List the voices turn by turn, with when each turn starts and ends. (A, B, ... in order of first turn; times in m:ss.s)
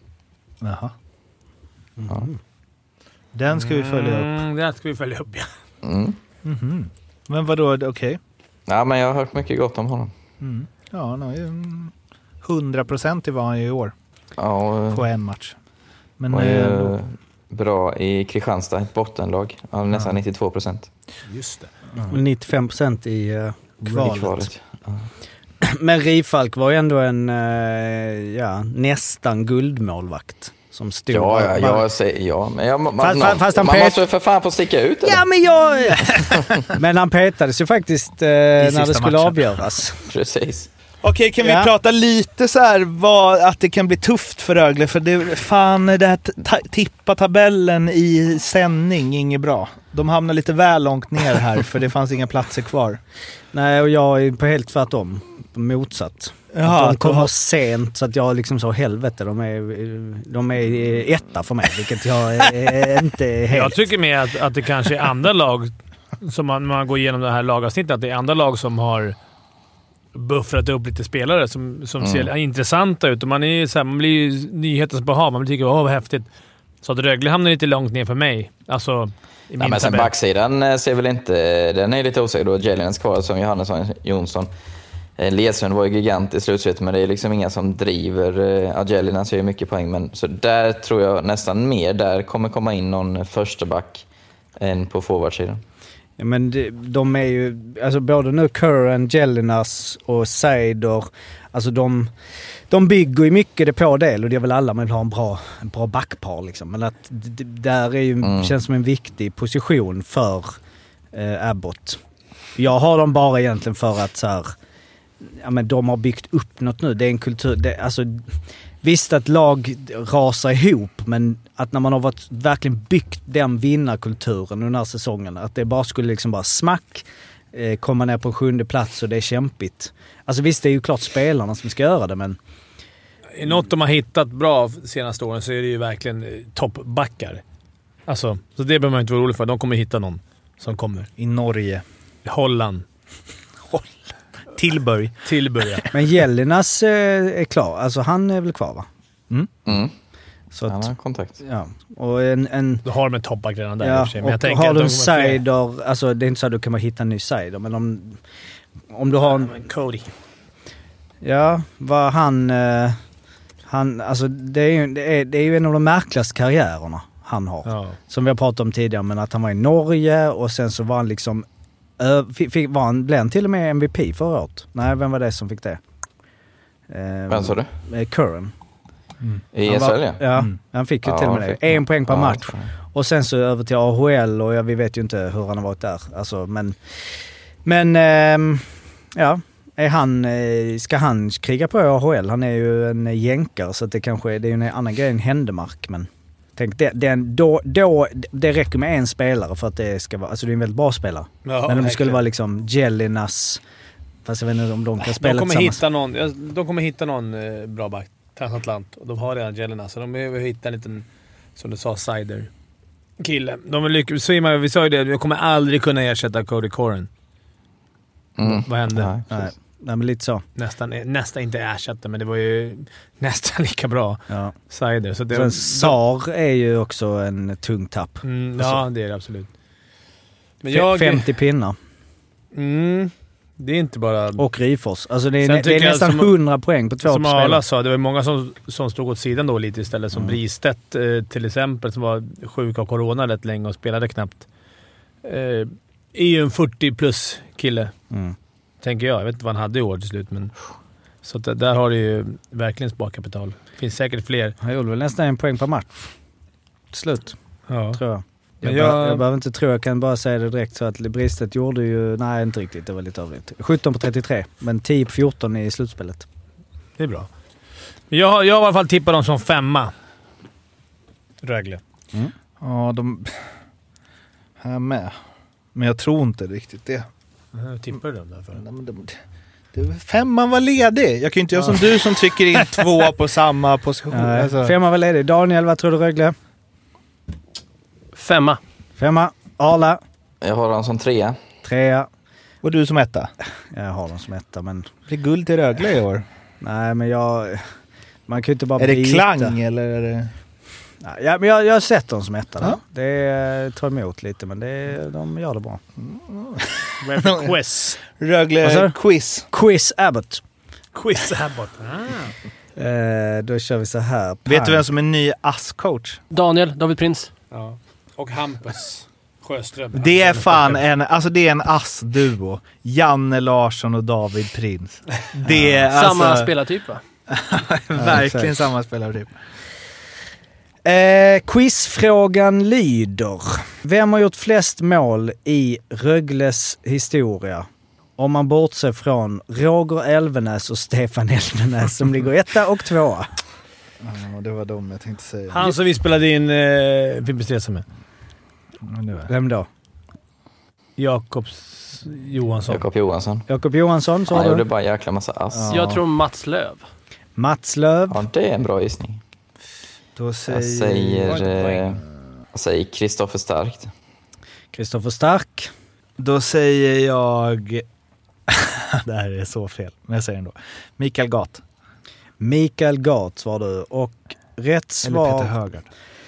0:00.6-0:00.9 A
0:02.0-0:02.4 B
0:03.3-0:04.3 A
0:03.6-0:05.5 C
0:05.8-0:06.2 D
0:06.4-0:08.2 A
0:08.7-0:10.1 D
0:10.4-0:11.9 A
0:12.4-0:13.9 A
0:14.4-0:15.1 D
0:14.9-0:15.5 A
0:16.2-0:17.0 A
0:16.3-0:20.9 D
0:21.2-0:21.7 C
0:22.0-0:24.5 B
0:24.1-0:25.1 D
0:25.6-0:31.9 B
0:31.1-0:35.2 D
0:33.0-0:34.0 B
0:35.0-0:40.0 B
0:36.1-0:36.5 A
0:38.6-0:39.6 A
0:40.1-0:40.7 D
0:41.0-0:53.0 A
0:41.4-0:41.7 B
0:53.5-1:03.8 B
0:56.5-0:57.3 A
1:03.5-1:09.2 C
1:10.1-1:16.3 C
1:12.0-1:12.3 D
1:16.8-1:20.1 C
1:19.6-1:24.5 D
1:25.2-1:34.1 D
1:34.6-1:35.6 D
1:36.2-1:42.1 B
1:42.7-1:50.6 B
1:48.2-1:48.5 D
1:51.1-1:52.0 B
1:52.6-1:54.5 B
1:55.2-1:58.3 B
1:58.8-2:12.4 B
2:13.4-2:17.4 C
2:18.1-2:21.1 C
2:21.2-2:21.8 A
2:22.2-2:22.8 C
2:24.5-2:25.2 A
2:25.2-2:25.9 C
2:25.9-2:28.9 B
2:29.7-2:29.9 D
2:30.5-2:30.9 B
2:30.7-2:31.4 D
2:31.4-2:32.8 B
2:32.8-2:35.4 C
2:33.8-2:38.2 B
2:38.9-2:39.6 B
2:39.3-2:40.1 C
2:41.2-2:43.0 B
2:43.7-2:51.4 B
2:47.6-2:48.0 C
2:52.0-2:55.8 B
2:56.9-2:58.5 B
2:57.3-2:57.7 D
2:59.5-3:00.2 D
2:59.6-3:06.8 B
3:01.0-3:02.7 D
3:07.6-3:08.6 B
3:09.2-3:23.6 B
3:21.4-3:22.2 C
3:24.2-3:25.8 B
3:25.0-3:32.5 C
3:33.2-3:37.1 C
3:38.4-3:39.2 D
3:38.4-3:39.2 C
3:39.3-3:40.4 B
3:40.6-3:46.0 C
3:45.3-3:48.8 B
3:48.2-3:49.5 C
3:50.6-3:51.3 C
3:50.7-3:51.8 B
3:52.5-3:54.4 C
3:54.4-3:57.6 B
3:55.4-3:56.3 C
3:57.0-4:04.5 C
4:00.1-4:00.4 B
4:05.2-4:07.9 C
4:08.1-4:08.4 B
4:08.8-4:10.5 C
4:11.2-4:14.6 C
4:14.6-4:16.1 B
4:16.9-4:17.4 B
4:17.7-4:18.0 C
4:17.9-4:26.2 B
4:18.6-4:19.2 C
4:27.0-4:27.3 C
4:28.1-4:29.9 C
4:31.4-4:31.8 C
4:32.6-4:33.3 A
4:34.6-4:35.1 A
4:35.8-4:37.1 A
4:37.5-4:38.6 C
4:38.6-4:39.2 A
4:39.8-4:44.7 A
4:44.1-4:46.4 B
4:48.2-4:48.6 E
4:49.0-4:50.0 B
4:50.4-4:51.4 D
4:51.6-4:52.1 B
4:52.6-4:53.3 A
4:53.7-4:54.9 B
4:55.1-4:56.2 A
4:56.6-4:57.6 B
4:58.3-4:59.6 B
4:58.8-5:00.3 A
5:01.0-5:05.8 B
5:06.0-5:09.4 A
5:07.1-5:07.4 E
5:08.6-5:10.4 B
5:10.9-5:12.3 C
5:12.8-5:14.8 B
5:14.5-5:16.2 A
5:16.3-5:17.3 E
5:17.5-5:20.8 C
5:20.0-5:26.5 A
5:25.5-5:25.9 B
5:25.9-5:27.0 E
5:27.3-5:29.3 A
5:28.0-5:28.6 B
5:30.8-5:37.7 B
5:38.2-5:43.2 B
5:44.0-5:45.8 A
5:45.5-5:47.8 C
5:48.9-5:49.3 A
5:49.3-5:49.7 B
5:51.0-5:52.8 C
5:52.7-5:53.5 D
5:53.5-5:54.7 B
5:54.3-5:55.9 D
5:55.5-5:56.0 A
5:55.7-5:56.8 E
5:57.4-5:58.2 B
5:58.1-5:59.2 D
6:00.2-6:01.6 A
6:00.5-6:02.0 D
6:02.5-6:03.9 D
6:04.7-6:05.7 B
6:06.2-6:07.8 A
6:08.5-6:11.6 A
6:12.4-6:15.6 B
6:15.0-6:15.9 A